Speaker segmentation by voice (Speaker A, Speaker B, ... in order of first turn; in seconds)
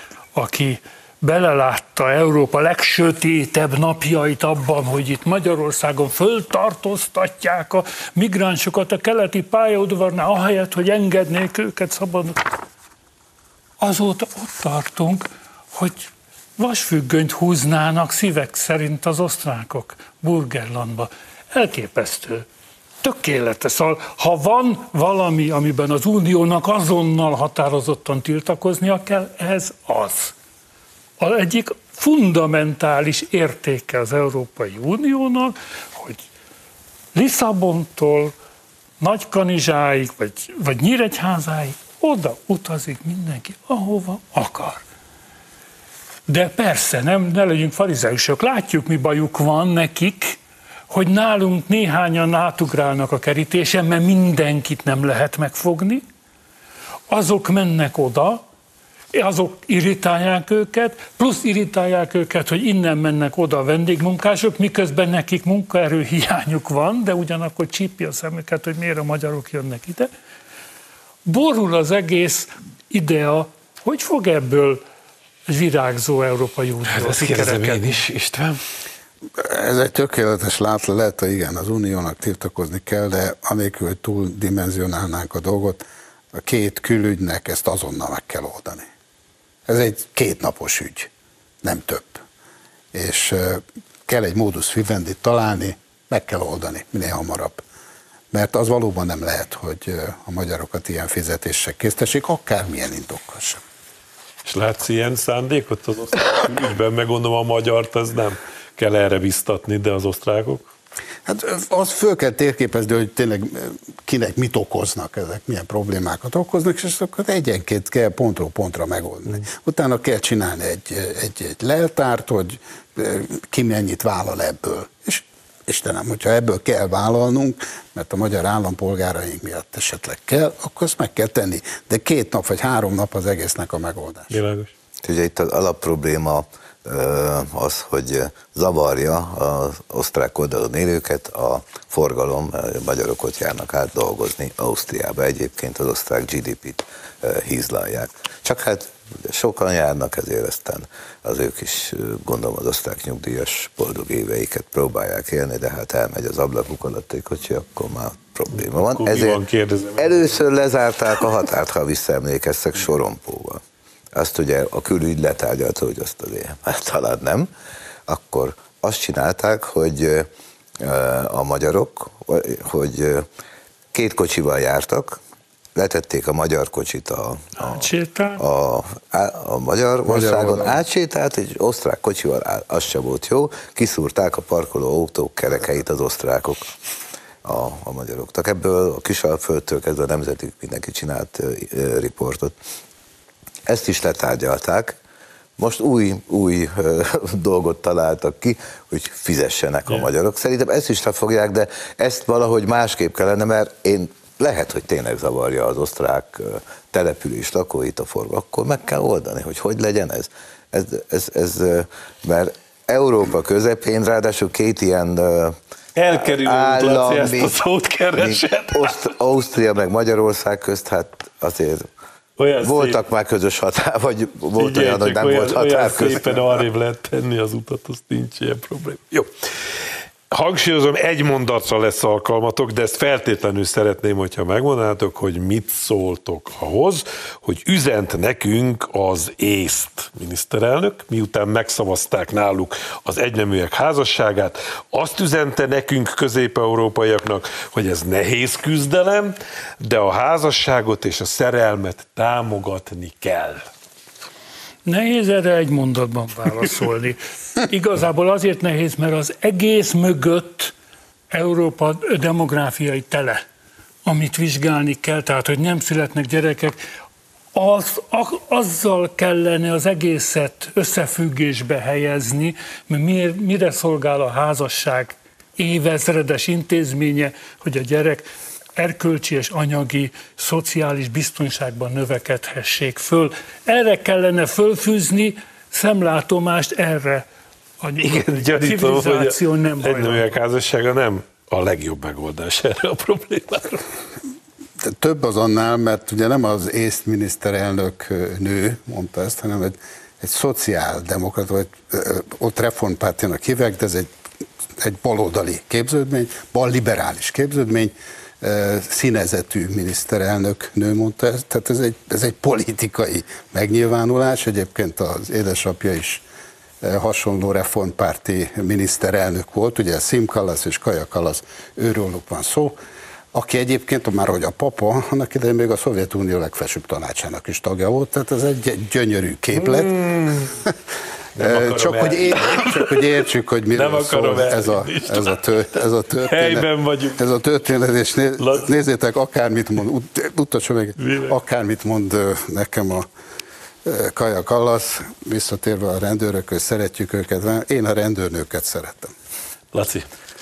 Speaker A: 0.3-12.5, 13.8-22.4, 23.0-30.3, 31.2-36.2, 37.1-38.3, 39.0-44.8, 46.3-50.4, 50.9-56.0, 57.1-58.4, 59.1-70.1, 71.2-74.8, 75.5-78.0, 177.6-178.4, 254.8-260.7, 261.3-263.4, 264.0-266.8, 267.5-287.2, 287.8-290.3
Speaker B: 76.9-78.6, 104.4-110.7, 134.3-134.7, 158.6-160.4, 215.9-219.1, 222.4-223.0, 224.6-229.3, 230.3-253.6, 288.0-293.8, 329.5-330.6, 331.4-333.0, 333.7-335.6, 336.2-337.2, 338.4-338.7, 341.0-341.3, 349.7-350.1
Speaker C: 79.4-85.8, 86.3-88.9, 89.7-91.1, 91.6-92.2, 92.9-97.6, 98.3-103.6, 111.2-134.3, 180.1-180.8, 294.8-304.1, 304.8-316.2, 316.8-322.8, 323.3-330.0, 331.4-343.1, 343.8-349.1
Speaker D: 135.0-159.4, 160.0-163.6, 164.1-167.5, 168.1-170.3, 170.8-173.2, 173.9-175.2, 175.8-177.9, 178.4-186.7, 187.4-192.5, 193.7-195.0, 195.6-215.6, 216.1-217.6, 218.2-221.8, 222.6-226.6